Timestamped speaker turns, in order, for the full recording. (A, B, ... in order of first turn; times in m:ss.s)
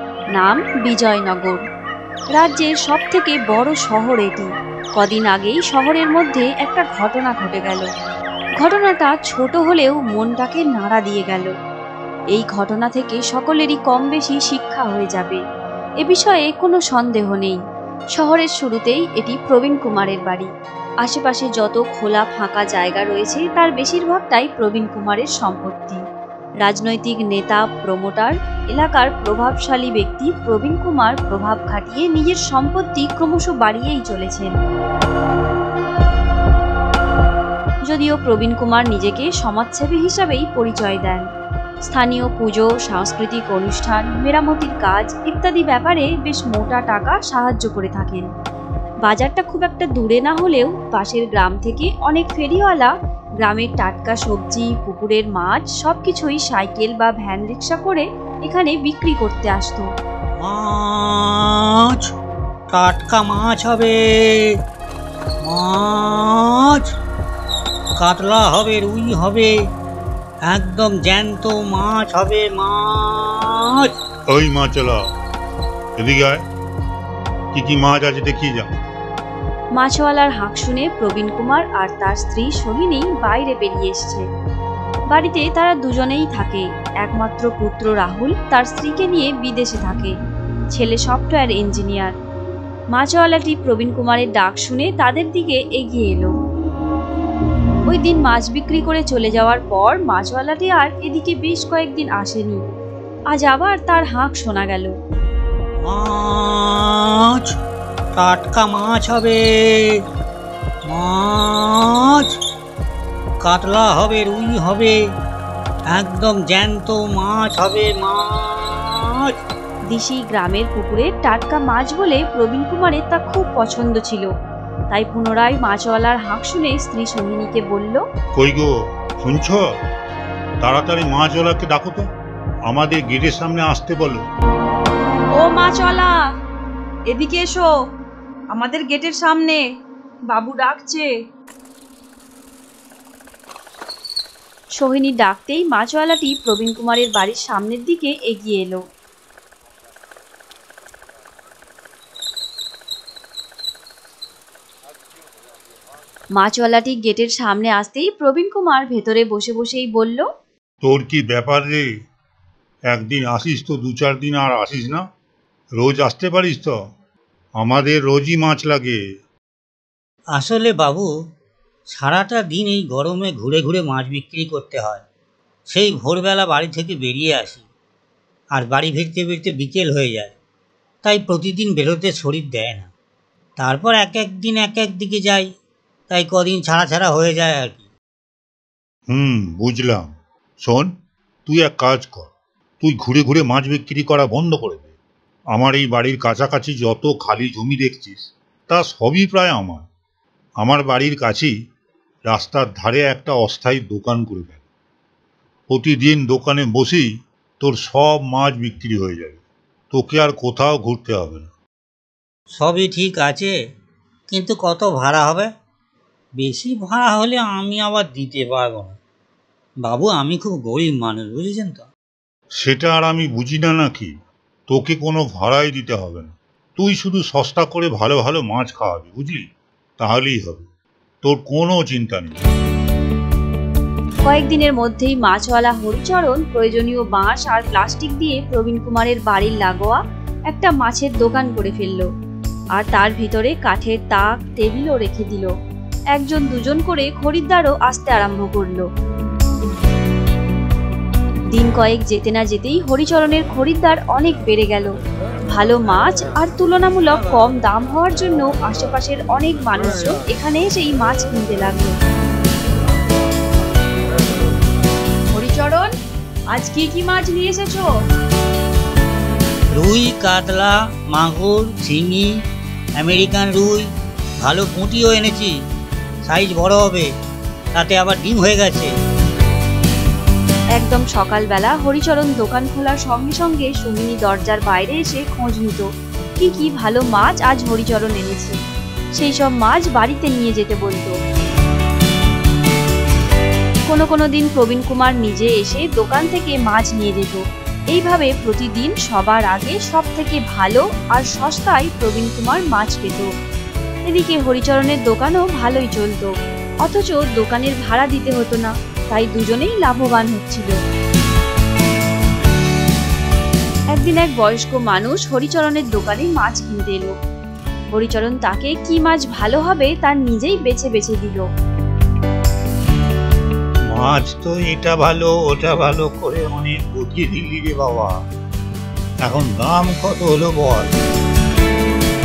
0:00.3-0:01.6 A
0:02.3-0:07.9 A
0:08.6-0:11.5 A
0:12.3-0:15.4 A
0:16.0-0:17.6 A
0:18.1-0:20.5 A
0:21.0-0:26.0 A
0:26.6-0:34.5 A
0:37.9-0:41.2 A
0:41.9-0:48.3 A
0:49.0-0:59.8 A
1:00.4-1:02.0 B
1:02.7-1:04.4 B
1:05.4-1:06.9 B
1:08.0-1:09.5 B
1:10.4-1:13.9 B
1:14.3-1:15.0 C
1:16.0-1:16.4 C
1:17.5-1:18.7 C
1:19.7-1:24.2 A
1:25.1-1:30.1 A
1:30.7-1:32.1 A
1:32.9-1:36.3 A
1:37.9-1:42.6 A
1:43.3-1:44.9 A
1:45.8-1:47.4 B
1:48.1-1:49.8 B
1:50.8-1:52.3 B
1:53.4-1:55.0 B
1:55.9-1:59.3 B
1:59.9-2:04.3 A
2:04.9-2:08.0 A
2:08.3-2:09.6 C
2:10.6-2:12.1 C
2:12.7-2:14.2 C
2:15.3-2:16.3 A
2:17.1-2:17.7 A
2:18.5-2:19.6 A
2:20.3-2:21.1 A
2:24.8-2:28.8 A
2:36.4-2:40.2 A
2:40.8-2:41.8 C
2:42.9-2:45.0 C
2:45.8-2:46.7 C
2:47.6-2:49.0 C
2:50.3-2:51.1 B
2:51.9-2:55.0 B
2:55.7-2:57.6 B
2:58.5-3:00.3 B
3:01.0-3:02.9 B
3:03.6-3:05.5 B
3:06.1-3:07.8 B
3:09.1-3:10.9 C
3:11.4-3:14.9 C
3:15.5-3:19.8 C
3:20.6-3:21.5 C
3:22.3-3:24.6 C
3:25.7-3:31.5 C
3:32.5-3:33.5 B
3:34.3-3:35.5 B
3:36.4-3:39.0 B
3:39.8-3:41.9 B
3:42.6-3:44.1 C
3:44.7-3:49.4 C
3:50.0-3:50.6 C
3:51.2-3:52.4 C
3:54.2-4:02.1 A
4:02.7-4:05.5 A
4:06.1-4:08.8 A
4:11.5-4:14.9 A
4:15.5-4:21.9 A
4:25.3-4:25.9 A
4:26.5-4:27.9 A
4:29.7-4:32.3 B
4:33.0-4:33.8 B
4:34.4-4:35.5 B
4:36.2-4:37.1 B
4:37.7-4:38.9 B
4:40.7-4:45.8 A
4:46.4-4:48.6 A
4:49.1-4:51.1 A
4:53.9-5:03.3 A
5:04.0-5:06.3 A
5:06.8-5:10.7 A
5:13.9-5:17.1 A
5:17.9-5:21.4 A
5:23.9-5:28.2 C
5:29.2-5:30.9 C